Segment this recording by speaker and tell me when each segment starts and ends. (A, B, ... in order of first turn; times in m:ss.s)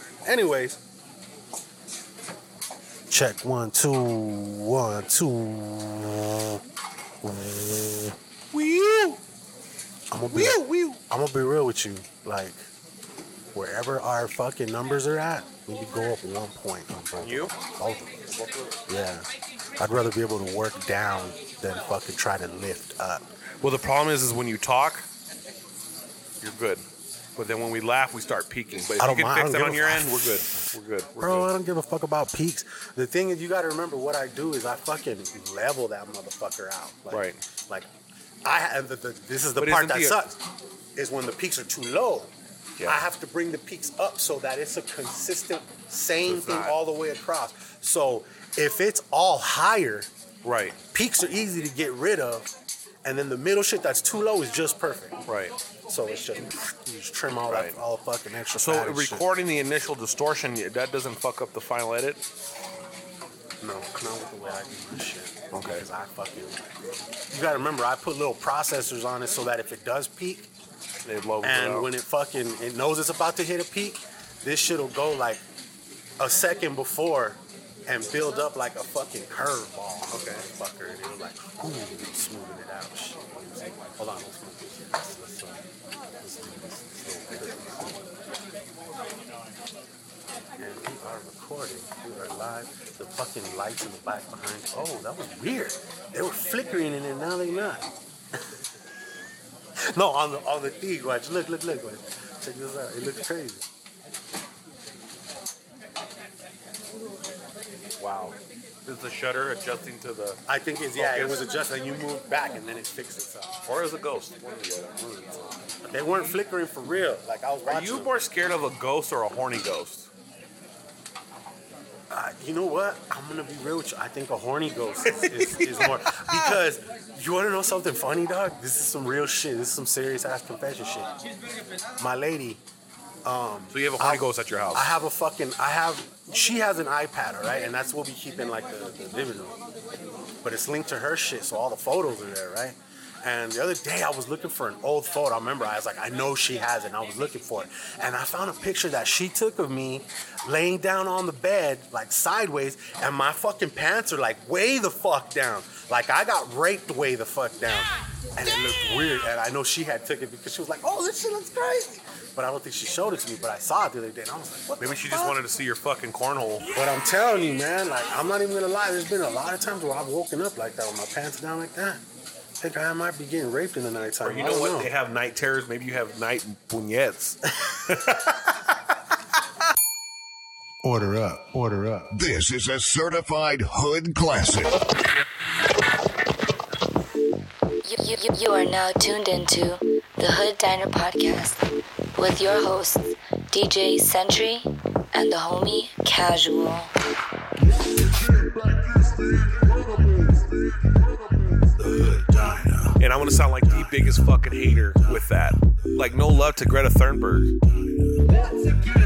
0:00.3-0:00.8 A
0:03.1-0:06.6 A
0:07.2-0:08.2 A
0:08.5-0:09.2 B
0:10.1-0:12.7 A
0:10.3-0:11.0 B
0:13.5-0:18.2 A
0:17.2-0:17.5 B
0:18.3-0:18.8 B
0:18.9-0:19.3 A
0:19.8-0:23.2 A
0:23.6-0:25.1 B
0:26.4-0:26.8 B
0:27.4-0:31.5 B
0:29.0-0:30.3 A
0:31.2-0:37.9 A
0:37.1-0:37.4 B
0:38.4-0:40.4 A
0:39.6-0:40.3 B
0:41.0-0:42.3 A
0:42.8-0:50.1 A
0:46.2-0:46.8 B
0:50.4-0:50.8 B
0:50.9-0:52.5 A
0:53.0-0:55.2 A
0:55.2-0:55.5 B
0:55.9-0:59.2 A
0:57.5-0:57.8 B
0:58.6-1:02.2 B
1:03.6-1:06.7 A
1:05.5-1:05.8 B
1:07.3-1:10.5 A
1:11.0-1:11.9 B
1:11.4-1:15.4 A
1:16.2-1:25.6 A
1:20.1-1:20.5 B
1:26.2-1:28.1 A
1:30.6-1:38.4 A
1:39.8-1:43.7 A
1:48.0-1:50.4 B
1:50.5-1:53.6 A
1:51.0-1:51.4 B
1:53.6-1:55.6 B
1:55.8-1:58.1 A
1:57.7-2:00.1 B
2:02.1-2:11.1 A
2:05.0-2:06.6 B
2:12.0-2:12.6 A
2:13.2-2:19.6 A
2:13.7-2:14.9 B
2:20.4-2:45.4 A
2:44.7-2:46.7 B
2:46.7-2:52.0 A
2:52.6-2:54.9 A
2:54.2-2:57.4 B
2:57.6-2:58.1 A
3:00.8-3:02.1 A
3:02.1-3:04.8 C
3:07.8-3:11.6 D
3:12.2-3:16.9 D
3:23.0-3:27.6 B